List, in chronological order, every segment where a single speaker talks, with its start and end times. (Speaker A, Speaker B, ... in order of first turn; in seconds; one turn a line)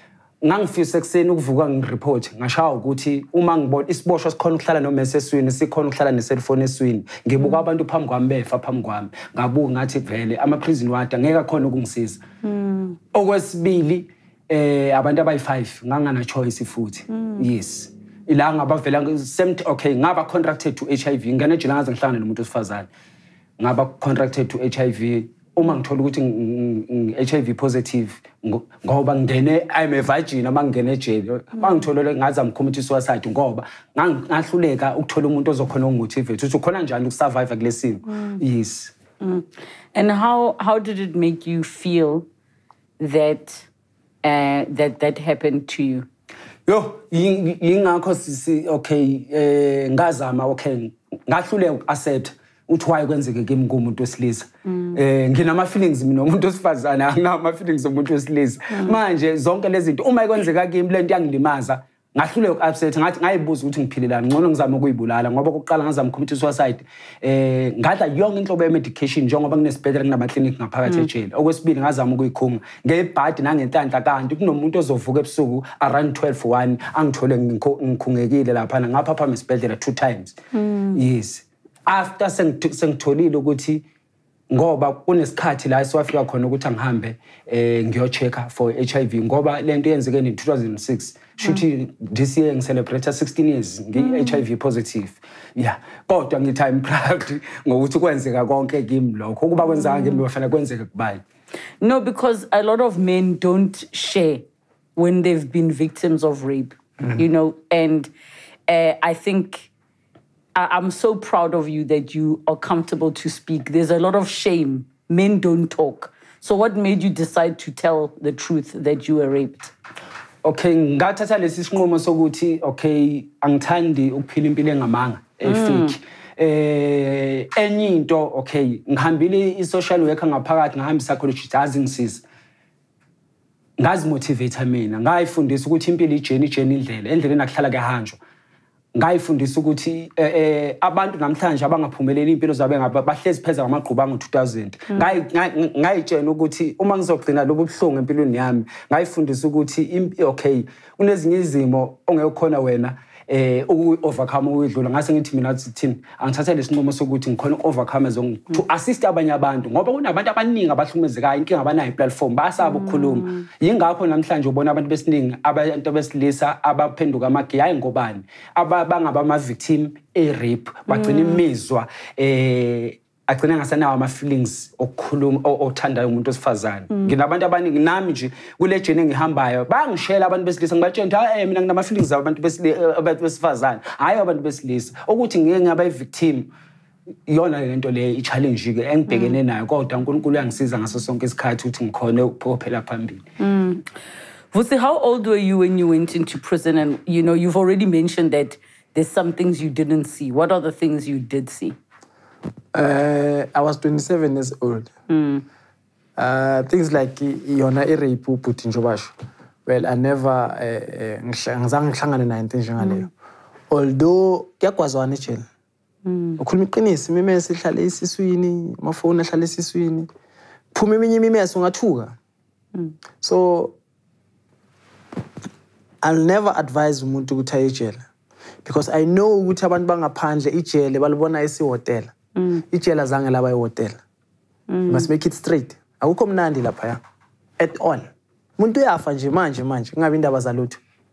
Speaker A: 0.4-12.2
Speaker B: 12.4-13.0
Speaker A: 13.1-22.9
Speaker B: 17.1-17.4
Speaker A: 23.6-38.9
Speaker B: 38.1-38.4
Speaker B: 39.2-42.3
Speaker B: 43.0-43.7
Speaker B: 44.2-46.0
Speaker A: 46.7-80.3
Speaker B: 54.7-55.0
Speaker B: 80.5-81.0
Speaker A: 80.9-83.8
Speaker A: 84.5-101.2
Speaker B: 94.0-94.4
Speaker B: 99.6-100.2
Speaker B: 101.8-108.1
Speaker B: 108.7-109.7
Speaker B: 110.5-119.7
Speaker A: 120.4-132.2
Speaker B: 125.4-126.0
Speaker A: 133.8-138.2
Speaker A: 138.9-186.5
Speaker B: 162.6-163.4
Speaker B: 170.9-171.4
Speaker A: 187.3-193.2
Speaker B: 189.1-189.4
Speaker B: 193.4-193.8
Speaker B: 194.5-201.8
Speaker C: 202.7-204.9
Speaker B: 205.1-205.4
Speaker C: 206.2-209.1
Speaker C: 209.7-213.1
Speaker B: 212.8-213.1
Speaker C: 213.7-215.4
Speaker B: 216.1-216.4
Speaker C: 216.4-220.1
Speaker C: 220.7-222.2
Speaker C: 223.2-223.8
Speaker C: 226.0-228.0
Speaker C: 228.6-232.1
Speaker B: 232.3-232.6
Speaker C: 232.7-234.0
Speaker B: 234.7-235.1
Speaker C: 234.9-237.0
Speaker C: 237.6-240.8